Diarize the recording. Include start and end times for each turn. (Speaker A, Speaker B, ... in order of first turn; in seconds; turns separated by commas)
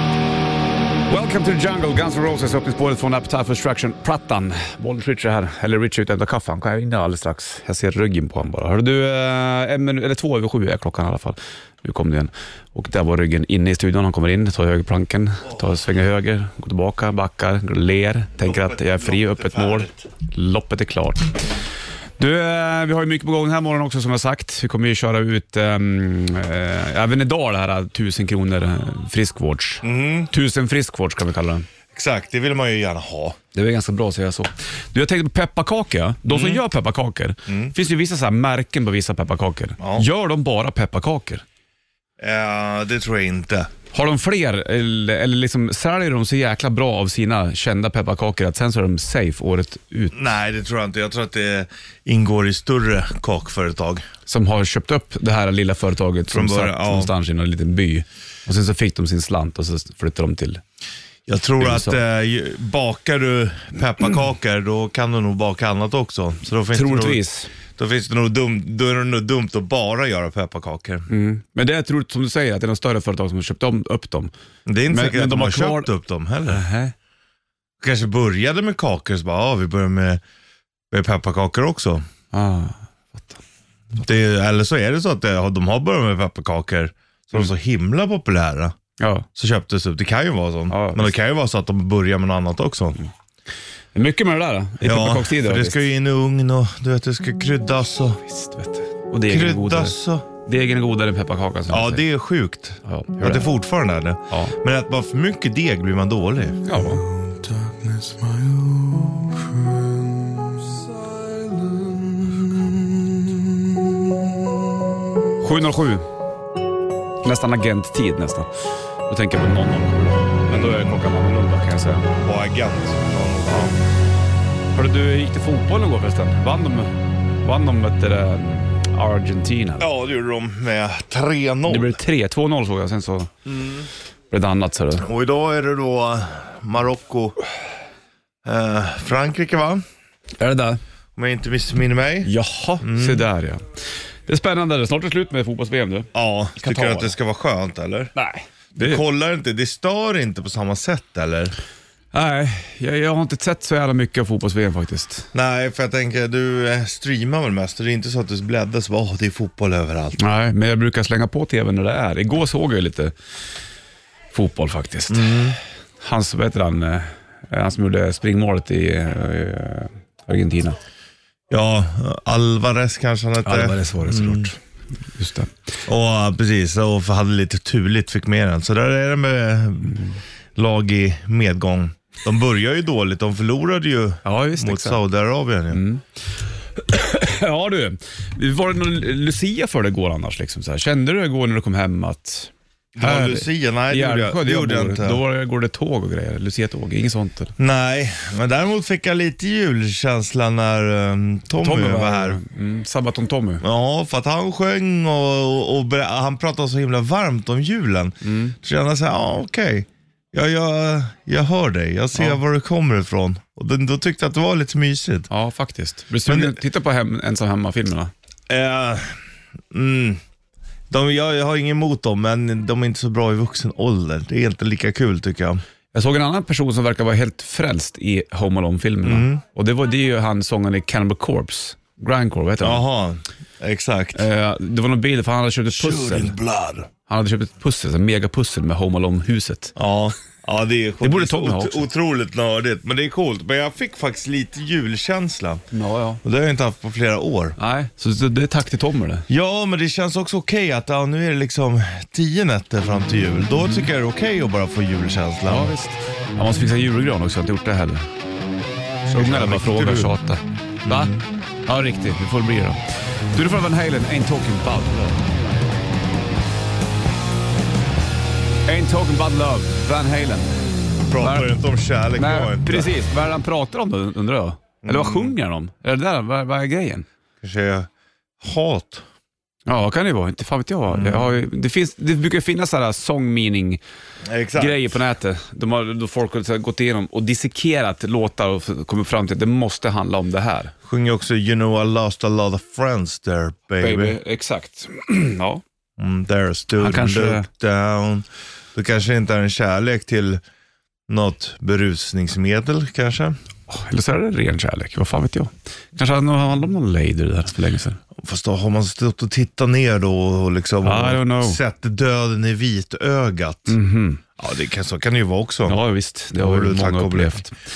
Speaker A: 1.1-21.4, Speaker B: 18.4-20.0, Speaker A: 22.2-31.7, Speaker B: 29.8-30.3, Speaker B: 31.9-33.4, Speaker A: 33.5-41.4, Speaker B: 36.3-36.6, Speaker B: 37.5-37.7, Speaker B: 39.8-40.0, Speaker B: 42.2-43.7, Speaker A: 43.9-50.1, Speaker B: 50.1-54.0, Speaker A: 54.3-60.6, Speaker B: 56.3-57.1, Speaker B: 61.3-71.1, Speaker A: 61.6-62.0, Speaker A: 66.7-67.5, Speaker A: 71.1-74.3, Speaker B: 74.7-76.6, Speaker A: 74.9-75.9, Speaker A: 76.5-76.9, Speaker B: 77.8-80.2, Speaker B: 80.9-82.0, Speaker A: 82.3-83.4, Speaker B: 83.9-88.8, Speaker A: 89.0-89.3, Speaker B: 89.3-93.0, Speaker A: 90.7-91.1, Speaker A: 93.9-95.8, Speaker B: 94.8-98.2, Speaker A: 98.3-102.0, Speaker B: 99.2-100.2, Speaker B: 101.7-109.4, Speaker A: 102.8-103.5, Speaker A: 104.3-104.5, Speaker A: 106.6-107.0, Speaker B: 111.8-112.7, Speaker A: 115.4-116.0, Speaker A: 117.2-118.5, Speaker A: 119.1-122.1, Speaker B: 120.5-121.0, Speaker B: 122.2-123.8, Speaker A: 124.7-129.9, Speaker B: 129.8-132.0, Speaker A: 131.7-133.3, Speaker B: 133.4-133.9, Speaker A: 134.3-135.1, Speaker B: 135.0-137.4, Speaker B: 138.4-139.8, Speaker A: 140.4-140.8, Speaker B: 141.2-143.2, Speaker A: 142.2-147.1, Speaker B: 146.1-148.1, Speaker A: 148.1-149.0, Speaker B: 148.8-151.5, Speaker A: 152.1-155.3, Speaker B: 155.3-160.2, Speaker A: 160.2-163.1, Speaker A: 164.3-165.3, Speaker B: 165.1-165.6, Speaker A: 166.0-170.8, Speaker B: 171.5-174.5, Speaker A: 173.4-174.6, Speaker A: 175.1-175.5, Speaker B: 175.8-180.0, Speaker A: 179.9-180.2, Speaker B: 180.6-185.8, Speaker A: 184.2-185.0, Speaker A: 185.7-186.0, Speaker A: 186.8-197.5, Speaker B: 192.9-195.2, Speaker B: 197.6-202.4, Speaker A: 201.6-203.6, Speaker B: 203.6-215.3, Speaker A: 208.2-208.5, Speaker A: 215.3-218.1, Speaker B: 216.2-216.6, Speaker B: 218.5-219.2, Speaker B: 219.7-220.2, Speaker B: 220.9-225.6, Speaker A: 225.9-232.8, Speaker B: 229.0-229.4, Speaker B: 232.6-234.2, Speaker A: 234.1-236.3, Speaker B: 235.7-236.9, Speaker A: 237.1-239.7, Speaker B: 239.8-245.6, Speaker A: 241.0-241.8, Speaker A: 245.7-246.2, Speaker B: 246.2-247.6, Speaker A: 247.6-249.2, Speaker B: 249.3-255.7, Speaker A: 255.5-258.1, Speaker B: 259.1-260.1, Speaker A: 259.1-262.8, Speaker B: 260.8-261.2, Speaker A: 263.3-265.3, Speaker A: 268.6-270.6, Speaker B: 271.1-272.9, Speaker A: 271.2-271.5, Speaker A: 272.1-277.1, Speaker B: 274.8-275.3, Speaker B: 277.4-277.9, Speaker B: 278.4-279.0, Speaker A: 279.7-283.8, Speaker B: 280.9-281.3, Speaker B: 284.2-284.9, Speaker A: 284.5-290.7, Speaker B: 290.8-294.2, Speaker A: 293.8-295.6, Speaker B: 296.0-300.4, Speaker A: 296.8-297.5, Speaker B: 301.1-303.4, Speaker A: 303.7-308.0, Speaker B: 308.1-313.8, Speaker A: 310.8-311.6, Speaker A: 313.7-314.2, Speaker B: 314.4-315.8, Speaker A: 315.7-317.5, Speaker B: 316.4-317.4